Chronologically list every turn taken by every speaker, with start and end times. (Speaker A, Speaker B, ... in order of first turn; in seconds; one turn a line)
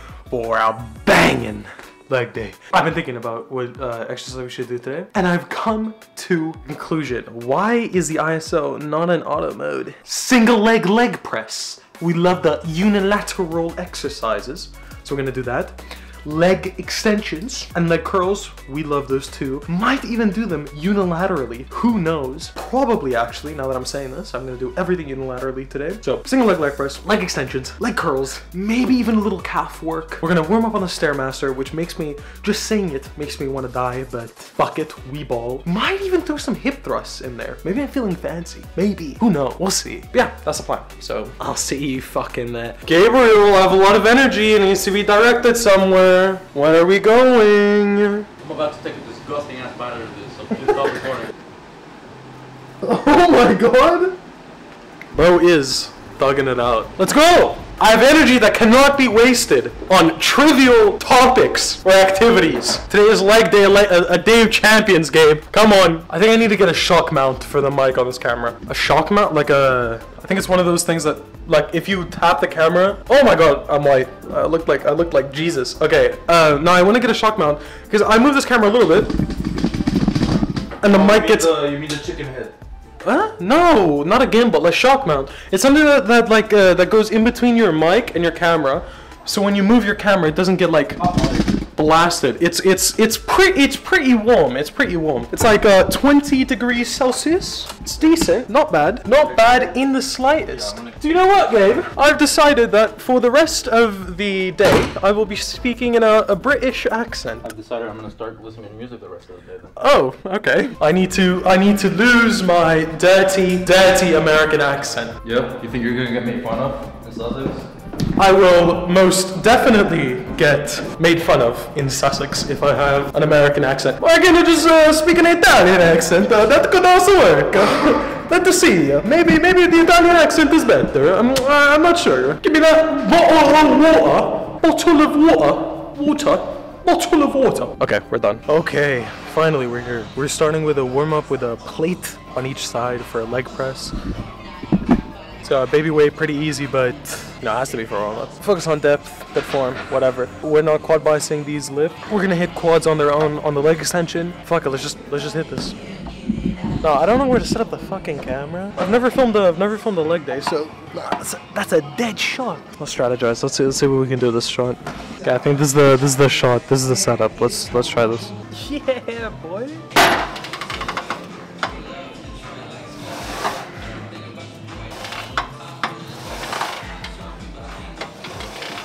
Speaker A: 0.3-48.3
Speaker B: 48.4-51.3
Speaker A: 52.8-54.2
Speaker A: 55.1-79.2
Speaker A: 80.8-81.6
Speaker B: 80.8-82.6
Speaker A: 83.0-91.0
Speaker B: 91.0-91.5
Speaker A: 91.8-107.5
Speaker B: 99.2-99.8
Speaker B: 100.4-101.0
Speaker B: 107.4-109.7
Speaker A: 109.8-115.2
Speaker B: 115.2-117.7
Speaker A: 118.2-143.9
Speaker A: 145.4-155.8
Speaker A: 156.8-169.8